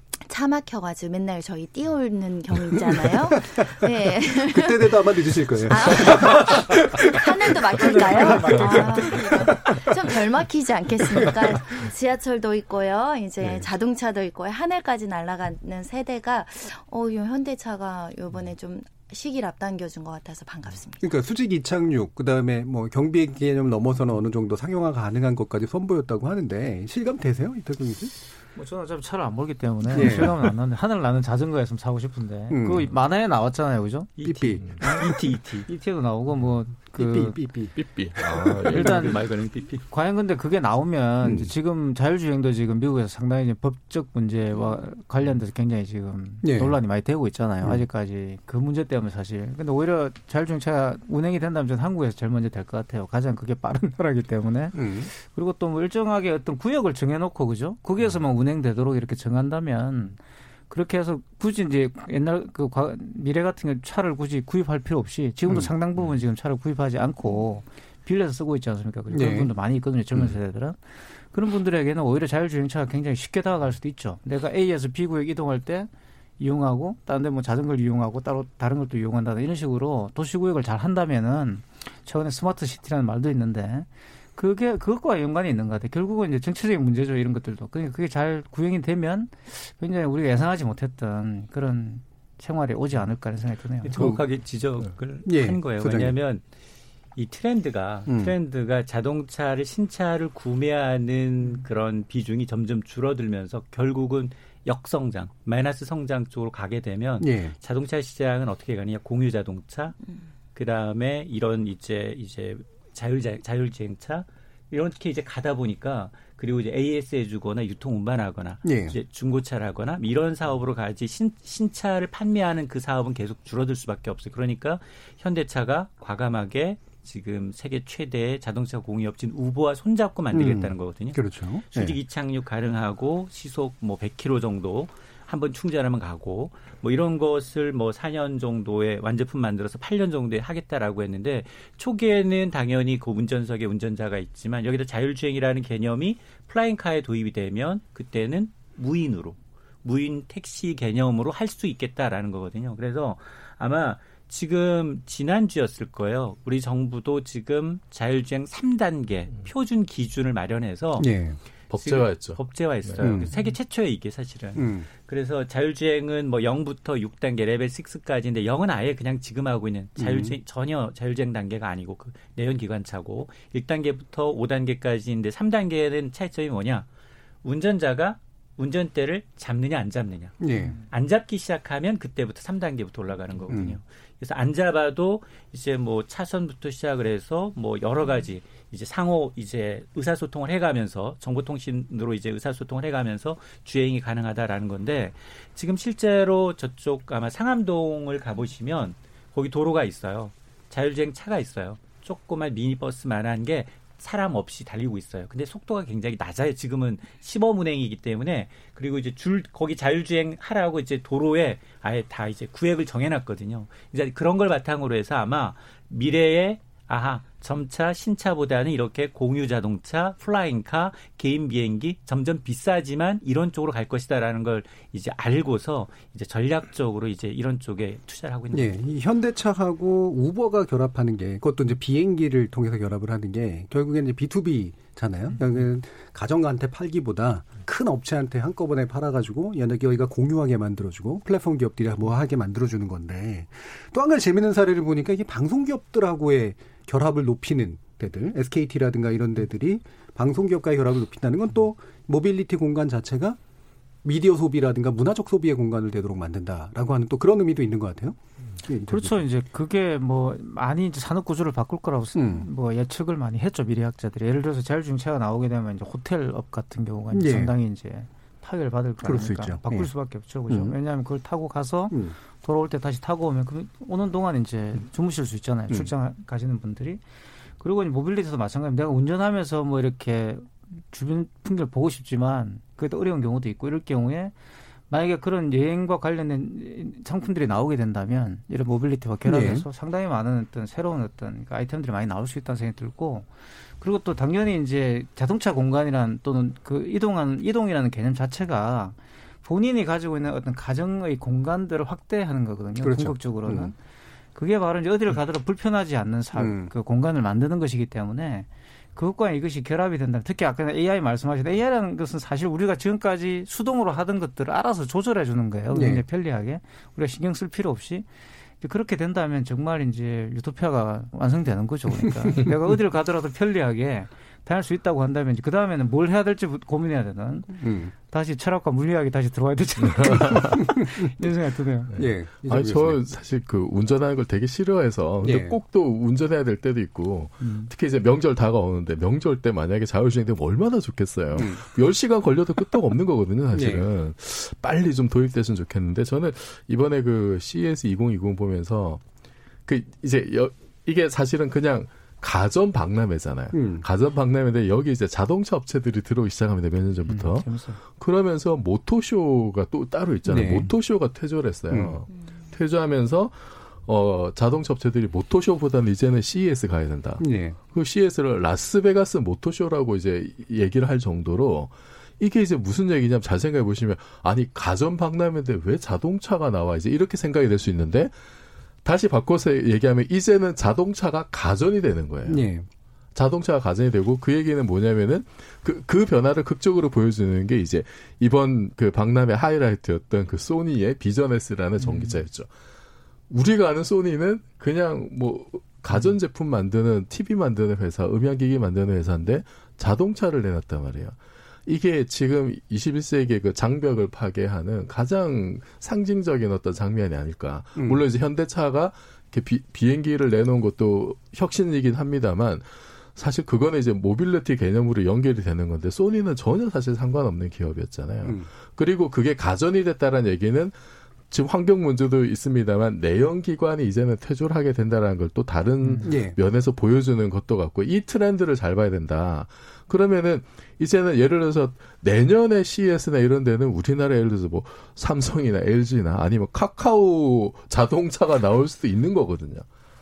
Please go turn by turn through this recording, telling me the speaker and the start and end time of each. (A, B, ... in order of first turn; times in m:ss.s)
0:00.3-0:21.0 A
0:02.6-0:03.6 B
0:04.4-0:09.9 B
0:08.2-0:09.3 C
0:13.4-0:13.7 B
0:21.0-0:28.1 B
0:28.6-0:35.1 C
0:29.9-0:30.4 B
0:32.5-0:32.9 B
0:34.2-0:35.6 D
0:34.2-0:34.8 B
0:35.7-0:37.4 C
0:37.0-0:37.7 B
0:37.8-0:39.2 E
0:38.6-0:39.2 C
0:38.7-0:39.8 D
0:39.9-1:00.2 C
0:41.2-0:41.5 B
0:46.4-0:46.8 B
0:54.7-0:55.1 B
1:00.7-1:33.9 C
1:09.1-1:09.5 B
1:33.8-1:36.4 D
1:35.2-1:36.1 B
1:37.2-1:50.0 D
1:38.1-1:38.3 B
1:47.2-1:47.6 B
1:50.5-2:41.1 D
1:58.6-1:59.0 B
2:10.3-2:12.0 B
2:41.0-2:41.4 B
2:41.7-2:43.2 E
2:41.8-2:56.9 D
2:43.0-2:43.3 B
2:44.6-2:44.9 B
2:50.0-2:50.4 B
2:57.4-3:48.8 D
3:00.4-3:00.8 B
3:03.5-3:03.8 B
3:48.5-4:13.4 B
4:14.0-4:19.2 B
4:18.9-4:37.0 C
4:22.1-4:22.5 B
4:27.1-4:27.5 B
4:29.0-4:29.9 B
4:30.5-4:30.7 B
4:31.9-4:32.2 B
4:37.6-4:44.3 C
4:44.9-4:53.2 C
4:49.2-4:49.6 B
4:53.8-5:03.7 C
5:02.8-5:03.7 B
5:04.4-5:18.1 C
5:06.4-5:06.7 B
5:15.7-5:16.0 B
5:18.6-5:31.9 C
5:27.6-5:27.9 B
5:29.8-5:30.6 E
5:32.0-5:33.0 B
5:32.0-5:49.0 E
5:35.2-5:35.6 B
5:37.4-5:37.7 C
5:41.4-5:41.6 B
5:43.5-5:43.8 B
5:49.6-6:18.1 E
5:53.5-5:53.8 B
5:57.1-5:57.8 C
6:00.3-6:00.7 B
6:01.7-6:02.0 B
6:07.2-6:07.6 B
6:18.8-6:22.5 E
6:22.2-6:22.6 B
6:23.1-6:32.5 E
6:33.3-7:00.8 E
7:01.3-7:19.6 E
7:06.0-7:06.4 B